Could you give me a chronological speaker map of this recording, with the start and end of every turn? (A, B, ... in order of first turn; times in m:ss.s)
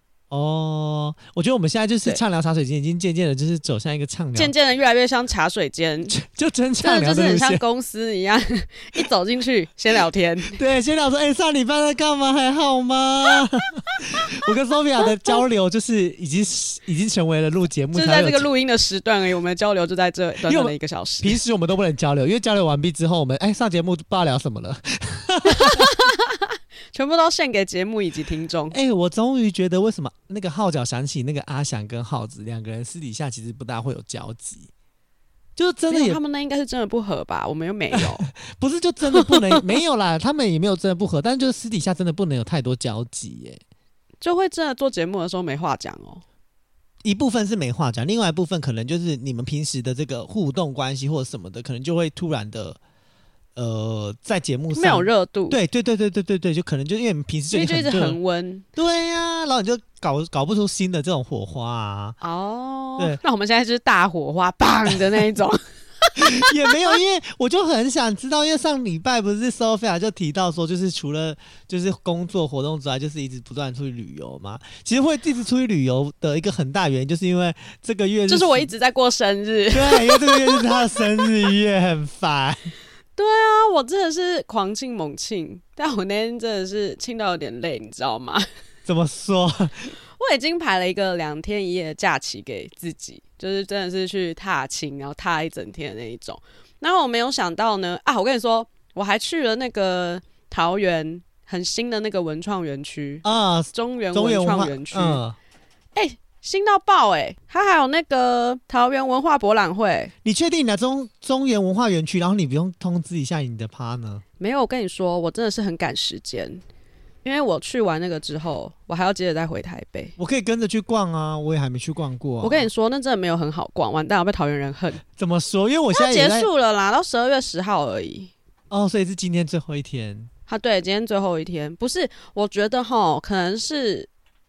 0:00.3-0:04.5 A
0:04.3-0:06.2 B
0:06.1-0:07.6 A
0:06.8-0:10.6 B
0:10.5-0:18.5 A
0:17.9-0:21.4 B
0:20.5-0:25.9 A
0:25.5-0:28.7 B
0:28.7-0:34.7 A
0:35.6-0:36.2 A
0:35.9-0:38.3 B
0:37.9-0:43.6 A
0:39.2-0:39.6 B
0:44.2-0:46.2 B
0:47.0-0:52.8 A
0:53.6-0:58.2 A
0:54.7-0:55.6 B
0:57.5-0:58.6 B
0:58.8-1:02.2 A
1:02.2-1:06.4 B
1:06.2-1:18.7 A
1:18.3-1:21.0 B
1:19.7-1:22.7 A
1:23.2-1:28.4 B
1:28.8-1:29.9 A
1:30.2-1:45.2 B
1:43.2-1:45.4 A
1:45.9-1:50.1 B
1:50.2-1:54.2 A
1:54.4-1:56.6 B
1:57.2-2:00.1 B
2:00.2-2:02.7 A
2:02.4-2:05.0 B
2:05.1-2:06.5 A
2:05.9-2:08.3 B
2:08.7-2:10.3 A
2:10.5-2:14.1 B